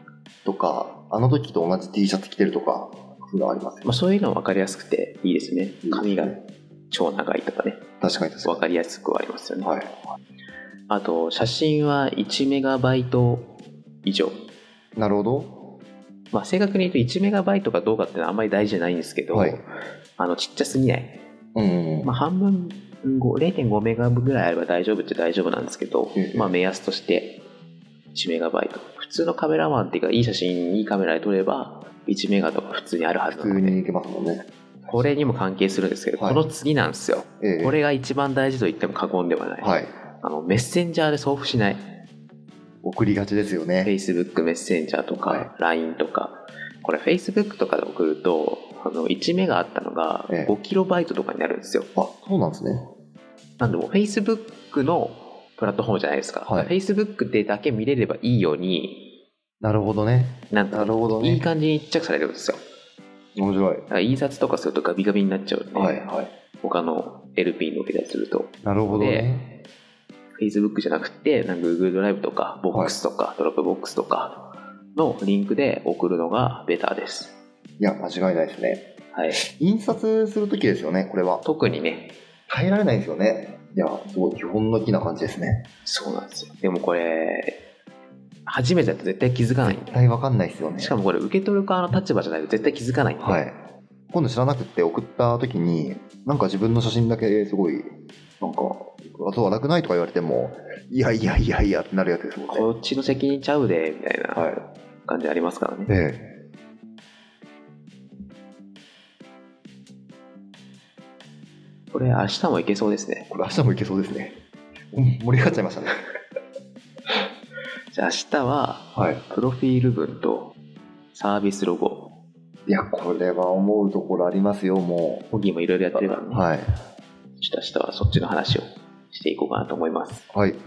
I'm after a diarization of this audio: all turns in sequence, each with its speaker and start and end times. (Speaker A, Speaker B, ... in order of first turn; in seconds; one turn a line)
Speaker A: 0.5-3.9
Speaker B: 3.8-7.8
Speaker A: 5.8-6.4
Speaker A: 8.0-8.6
Speaker B: 8.4-9.8
Speaker A: 9.6-9.9
Speaker B: 10.9-14.4
Speaker A: 15.0-15.7
Speaker B: 16.3-21.2
Speaker A: 19.3-19.6
Speaker A: 21.6-22.1
Speaker B: 22.0-27.4
Speaker A: 26.2-26.5
Speaker B: 28.1-33.8
Speaker A: 33.3-34.5
Speaker B: 34.9-41.9
Speaker A: 36.1-36.4
Speaker A: 37.4-37.8
Speaker A: 39.6-39.9
Speaker A: 42.8-43.9
Speaker B: 43.8-51.9
Speaker A: 45.1-45.5
Speaker A: 52.0-52.9
Speaker B: 53.6-59.1
Speaker A: 56.5-56.7
Speaker A: 59.6-61.5
Speaker B: 60.5-62.6
Speaker A: 63.4-63.9
Speaker B: 63.9-66.0
Speaker A: 65.7-66.3
Speaker B: 66.6-69.3
Speaker A: 68.6-69.5
Speaker B: 70.4-77.3
Speaker A: 77.8-81.4
Speaker B: 79.1-79.4
Speaker B: 81.4-82.2
Speaker A: 82.5-85.7
Speaker B: 85.8-87.6
Speaker B: 88.5-90.0
Speaker A: 89.6-91.0
Speaker B: 90.8-93.4
Speaker A: 93.2-93.6
Speaker A: 94.1-102.7
Speaker B: 102.5-105.9
Speaker A: 104.3-104.6
Speaker A: 105.9-106.3
Speaker B: 111.9-113.3
Speaker A: 113.3-114.4
Speaker A: 114.9-116.0
Speaker B: 117.9-120.5
Speaker A: 119.0-119.2
Speaker B: 121.1-122.1
Speaker A: 122.7-125.3
Speaker B: 125.3-126.5
Speaker A: 125.9-126.7
Speaker B: 127.4-130.3
Speaker A: 130.3-130.6